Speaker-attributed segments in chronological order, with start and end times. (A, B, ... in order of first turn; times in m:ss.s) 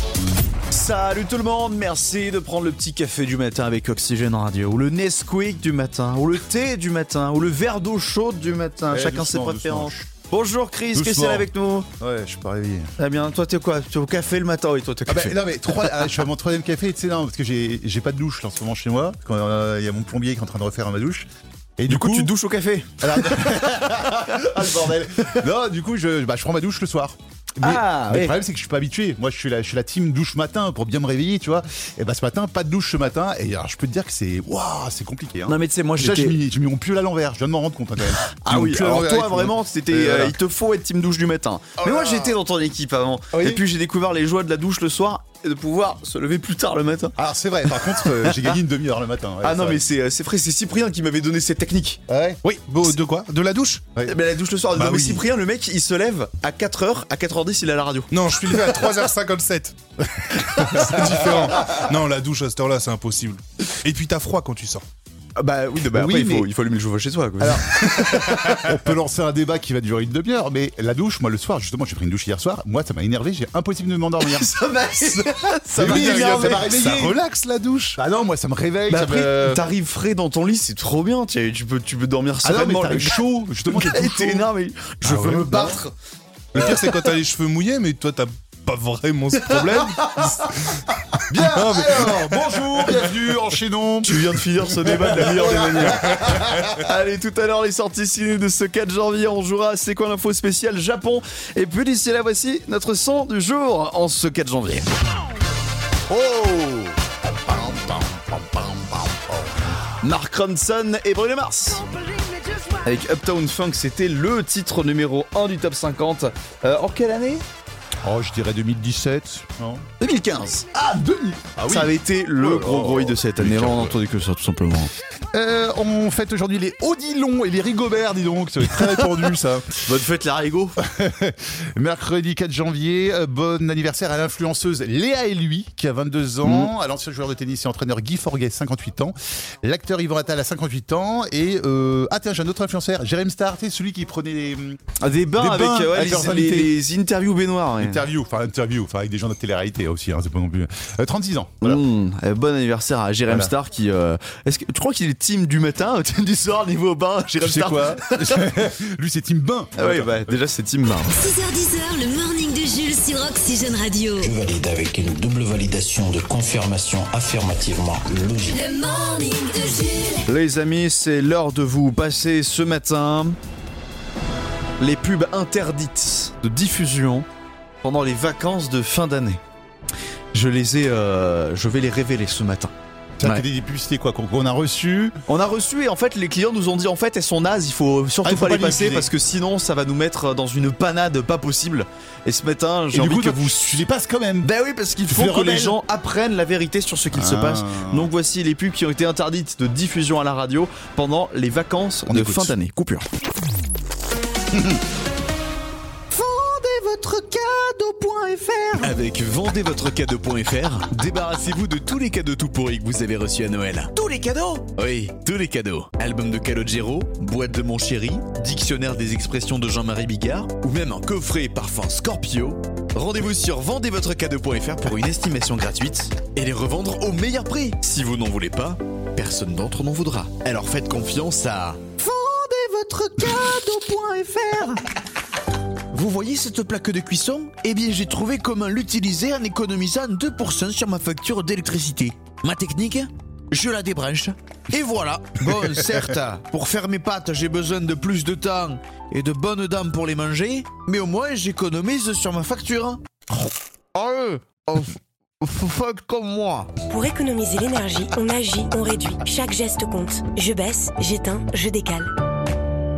0:00.7-0:11.9 A
0:08.9-0:10.1 B
0:10.9-0:12.9 B
0:13.0-0:16.0 A
0:15.1-0:22.3 B
0:21.9-0:25.4 A
0:23.0-0:40.4 B
0:27.6-0:28.4 A
0:35.5-0:36.4 A
0:38.3-0:47.2 A
0:41.8-0:42.3 B
0:43.4-0:43.6 B
0:47.2-0:49.8 B
0:47.7-0:48.6 A
0:49.4-0:52.0 A
0:52.1-0:52.4 B
0:52.4-0:53.8 C
0:54.1-0:58.1 A
0:54.8-0:55.2 C
0:58.1-1:04.8 C
1:00.6-1:01.4 A
1:01.0-1:01.6 B
1:05.4-1:08.7 A
1:05.9-1:06.5 B
1:07.4-1:14.7 B
1:14.2-1:16.9 A
1:15.7-1:18.0 C
1:15.8-1:17.2 B
1:18.0-1:19.7 B
1:18.9-1:25.9 A
1:22.4-1:24.5 B
1:25.0-1:25.5 C
1:25.2-1:25.8 B
1:26.6-1:29.9 C
1:26.6-1:27.1 A
1:29.4-1:30.5 A
1:30.7-1:32.5 C
1:31.3-1:36.8 B
1:34.0-1:36.1 A
1:36.1-1:36.4 C
1:36.8-1:44.9 A
1:46.1-1:49.7 B
1:50.0-1:51.9 A
1:52.8-1:57.4 A
1:58.0-1:59.9 B
2:00.0-2:00.7 A
2:00.7-2:03.8 B
2:01.7-2:04.9 A
2:05.3-2:09.8 B
2:09.8-2:10.8 A
2:10.8-2:26.8 B
2:25.0-2:28.1 A
2:27.8-2:31.8 B
2:31.6-2:38.5 A
2:37.4-2:40.4 B
2:39.8-2:41.2 A
2:41.1-2:44.3 D
2:44.2-2:48.6 E
2:48.5-2:50.2 D
2:50.3-2:53.4 A
2:54.8-2:57.3 A
2:57.8-2:59.4 A
3:00.3-3:02.7 A
3:03.2-3:05.2 B
3:05.3-3:13.8 A
3:08.2-3:09.1 B
3:12.9-3:14.5 B
3:14.4-3:23.1 A
3:15.1-3:15.8 B
3:17.1-3:18.1 B
3:22.1-3:22.6 B
3:24.5-3:24.8 B
3:26.1-3:54.9 A
3:55.9-4:13.4 A
4:05.6-4:05.9 B
4:13.9-4:16.7 A
4:16.9-4:22.1 F